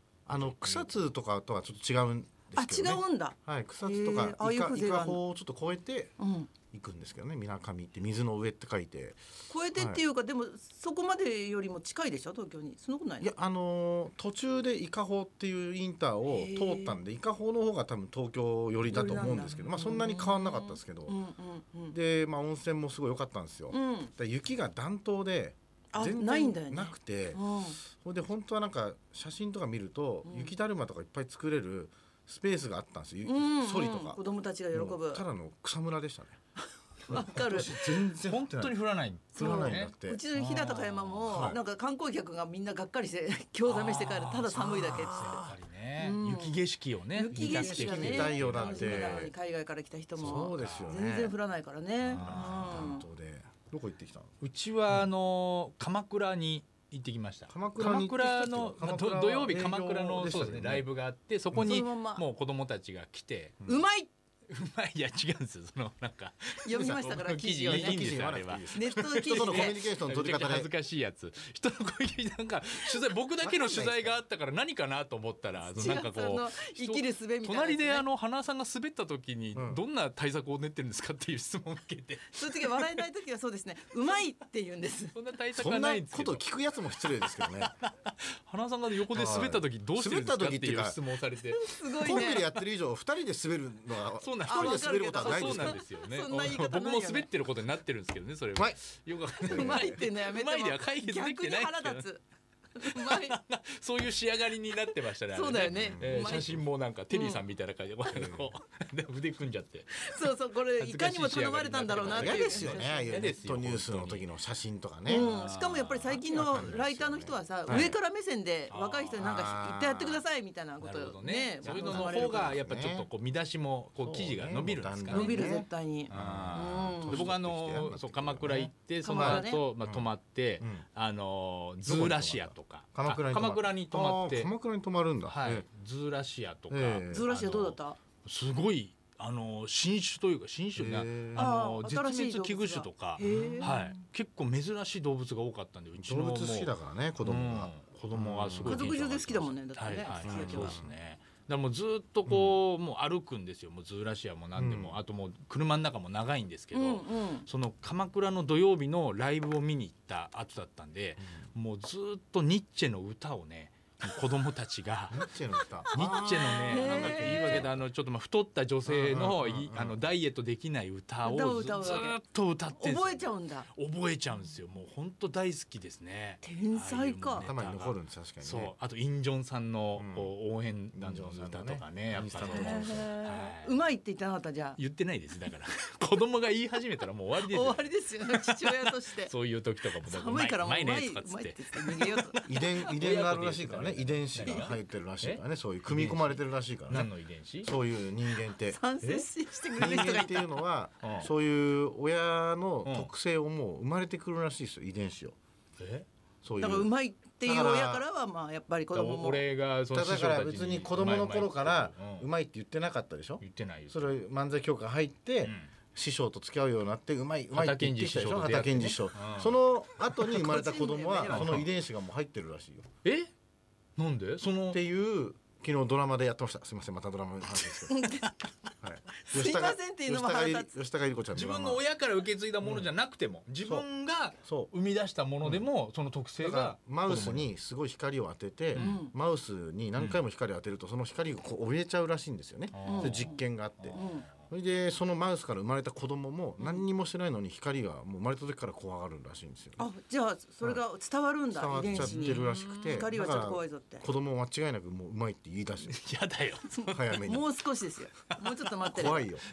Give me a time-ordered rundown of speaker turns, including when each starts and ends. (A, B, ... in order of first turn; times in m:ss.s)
0:00.3-0:06.1 A
0:00.4-0:01.0 B
0:02.6-0:05.2 C
0:06.2-0:06.5 C
0:06.7-0:09.2 A
0:09.5-0:13.3 C
0:09.8-0:10.0 A
0:13.2-0:21.2 A
0:16.3-0:17.0 C
0:18.9-0:22.0 C
0:21.9-0:34.2 A
0:23.7-0:24.1 C
0:25.9-0:27.8 C
0:30.2-0:30.5 C
0:33.2-0:35.2 C
0:34.7-0:36.4 A
0:37.1-0:37.8 C
0:37.1-0:38.8 A
0:37.7-0:41.5 B
0:39.4-0:40.2 A
0:39.4-0:46.6 C
0:41.3-0:41.6 A
0:43.7-0:49.3 B
0:47.1-0:53.1 C
0:47.3-0:49.3 A
0:50.2-0:51.3 A
0:50.2-0:51.0 B
0:52.1-0:54.4 A
0:52.1-0:53.0 B
0:54.4-1:03.6 B
0:57.5-1:00.9 A
1:01.6-1:02.2 C
1:03.6-1:04.1 C
1:04.5-1:23.0 B
1:06.6-1:09.8 C
1:06.7-1:10.7 A
1:13.4-1:14.2 A
1:15.6-1:18.0 C
1:19.6-1:19.8 A
1:22.3-1:25.2 C
1:25.1-1:26.5 B
1:25.5-1:27.7 A
1:27.0-1:32.5 B
1:29.1-1:31.0 A
1:31.5-1:32.5 C
1:32.0-1:35.8 A
1:34.2-1:42.1 B
1:34.5-1:37.3 C
1:39.4-1:40.0 A
1:39.5-1:42.2 C
1:42.8-1:43.4 C
1:42.8-1:54.3 B
1:45.3-1:47.4 C
1:45.7-1:46.6 A
1:48.1-1:48.5 A
1:50.0-1:53.2 C
1:52.1-1:55.3 A
1:55.1-2:02.6 C
1:55.1-1:56.7 B
1:56.3-1:58.0 A
1:57.7-1:58.0 B
1:58.7-1:59.4 B
1:59.2-2:00.2 A
2:00.8-2:05.5 B
2:01.6-2:03.1 A
2:04.0-2:10.1 A
2:05.1-2:07.3 C
2:06.1-2:14.5 B
2:09.0-2:09.6 C
2:10.6-2:10.9 A
2:11.8-2:15.7 A
2:15.3-2:45.3 B
2:16.7-2:17.3 A
2:17.1-2:18.0 C
2:20.8-2:21.5 A
2:21.4-2:23.9 C
2:23.2-2:23.8 A
2:26.0-2:28.9 A
2:28.6-2:30.8 C
2:30.2-2:31.0 A
2:32.3-2:32.6 A
2:34.6-2:35.0 A
2:36.7-2:37.5 C
2:41.2-2:41.5 A
2:45.1-2:47.8 A
2:45.9-3:03.8 B
2:45.9-2:47.7 C
2:48.9-2:50.0 A
2:51.2-2:52.2 C
2:52.8-2:53.7 C
2:56.4-2:57.5 C
2:57.4-2:58.7 A
3:00.0-3:00.3 A
3:01.0-3:03.1 A
3:02.5-3:04.8 C
3:04.8-3:17.7 B
3:07.4-3:09.3 C
3:10.0-3:12.4 C
3:12.5-3:17.1 A
3:14.4-3:14.7 C
3:17.6-3:18.8 A
3:18.6-3:20.5 C
3:19.0-3:20.3 B
3:19.8-3:25.4 A
3:21.0-3:21.3 B
3:22.8-3:23.1 B
3:25.8-3:26.1 B
3:26.4-3:26.9 A
3:26.6-3:29.4 C
3:27.4-3:28.0 A
3:28.9-3:32.3 B
3:29.9-3:42.9 A
3:33.4-3:34.0 B
3:35.4-3:35.7 B
3:37.5-3:40.4 B
3:40.3-3:41.6 C
3:41.3-3:41.7 B
3:43.0-3:43.3 B
3:44.0-3:44.8 B
3:44.7-3:48.0 A
3:47.6-3:48.3 B
3:47.9-3:48.4 C
3:48.8-3:51.8 A
3:49.3-3:50.7 C
3:51.3-3:57.5 B
3:52.6-3:52.9 A
3:54.4-3:54.7 A
3:55.4-3:55.7 A
3:56.4-4:09.8 A
3:58.7-3:59.1 B
3:58.8-3:59.1 C
4:02.7-4:04.2 B
4:02.8-4:03.4 C
4:03.9-4:04.3 C
4:09.8-4:14.1 C
4:11.5-4:16.0 A
4:11.8-4:13.1 B
4:15.8-4:17.0 B
4:16.7-4:19.3 C
4:16.9-4:17.5 A
4:18.4-4:19.3 B
4:18.9-4:19.4 A